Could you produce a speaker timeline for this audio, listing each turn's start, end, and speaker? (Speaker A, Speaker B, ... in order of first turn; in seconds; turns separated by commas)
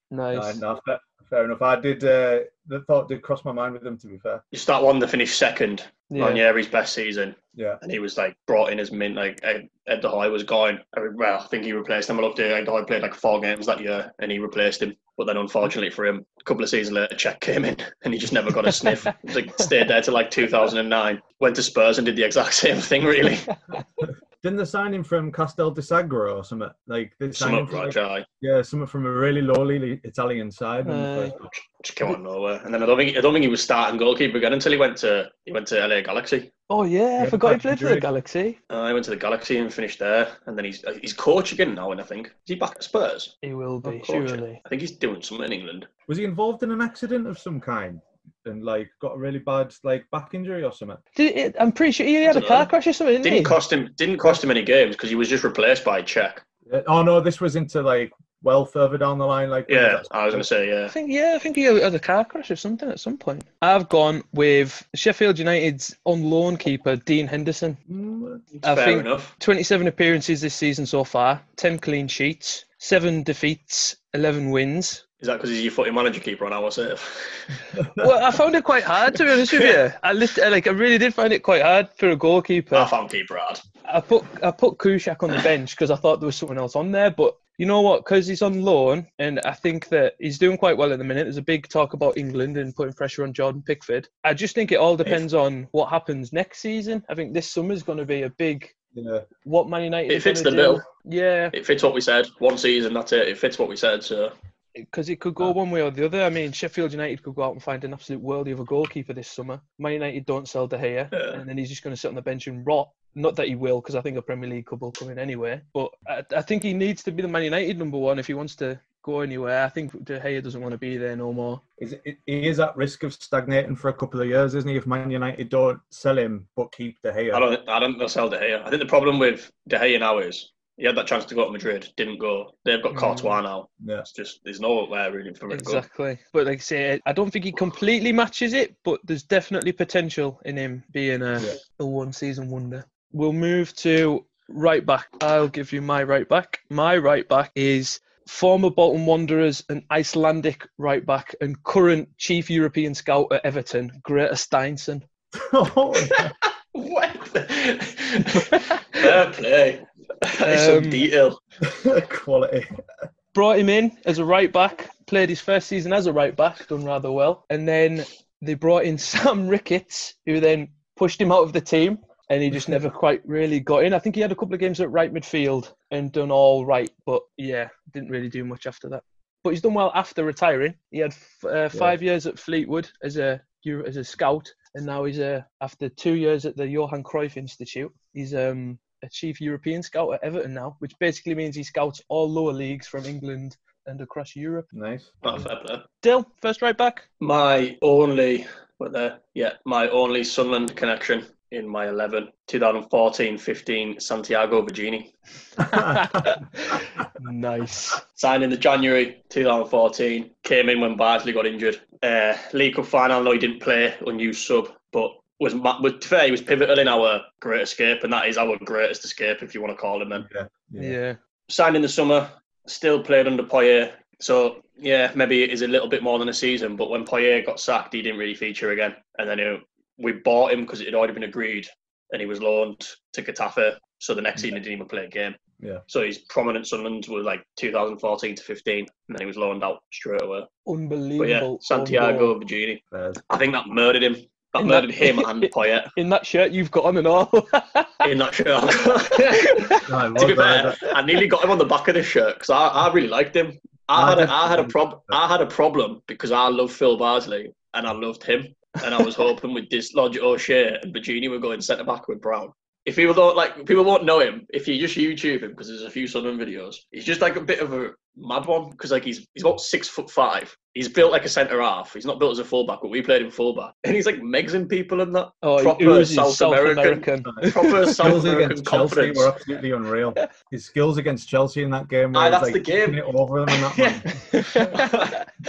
Speaker A: 0.1-0.6, Speaker B: 0.3-4.4, Speaker C: 4.5-23.5, Speaker A: 6.1-6.4, Speaker B: 7.6-7.8, Speaker B: 24.4-31.4, Speaker C: 27.3-28.3, Speaker A: 30.9-31.4, Speaker C: 31.4-36.5, Speaker A: 36.7-38.6, Speaker B: 37.2-38.1, Speaker C: 38.7-45.9, Speaker A: 43.4-44.6, Speaker B: 46.1-51.0, Speaker A: 51.2-53.6, Speaker C: 52.2-56.4, Speaker B: 56.7-60.5, Speaker C: 59.7-60.9, Speaker A: 60.9-67.8, Speaker B: 67.9-68.4, Speaker C: 68.6-69.3, Speaker A: 68.6-75.0, Speaker C: 75.2-77.6, Speaker B: 77.8-78.1, Speaker A: 78.0-82.9, Speaker C: 82.7-83.6, Speaker A: 83.9-98.7, Speaker B: 98.9-99.3, Speaker A: 99.5-101.5, Speaker C: 100.1-100.8, Speaker C: 101.5-104.3, Speaker A: 104.8-121.6, Speaker C: 111.1-111.4, Speaker B: 121.8-127.5, Speaker C: 127.3-135.8, Speaker A: 132.9-133.4, Speaker B: 133.8-134.1, Speaker A: 135.5-155.1, Speaker B: 155.3-156.3, Speaker C: 156.7-161.4, Speaker A: 160.4-161.0, Speaker B: 161.6-162.7, Speaker A: 163.3-194.7, Speaker B: 181.7-182.0, Speaker B: 194.7-195.1, Speaker C: 195.2-195.8, Speaker A: 196.0-197.1, Speaker C: 197.2-205.1, Speaker B: 205.6-206.2, Speaker A: 205.7-208.0, Speaker C: 208.2-220.3, Speaker B: 220.2-221.0, Speaker A: 220.8-221.2, Speaker C: 221.5-235.4, Speaker C: 235.9-240.5, Speaker A: 240.7-242.3, Speaker C: 241.2-245.9, Speaker B: 242.9-243.2, Speaker A: 244.6-248.1, Speaker C: 248.0-279.3, Speaker A: 249.3-249.8, Speaker B: 249.9-250.9, Speaker B: 253.9-255.2, Speaker A: 275.4-277.9, Speaker B: 277.9-284.1, Speaker C: 282.1-285.2, Speaker A: 284.3-285.2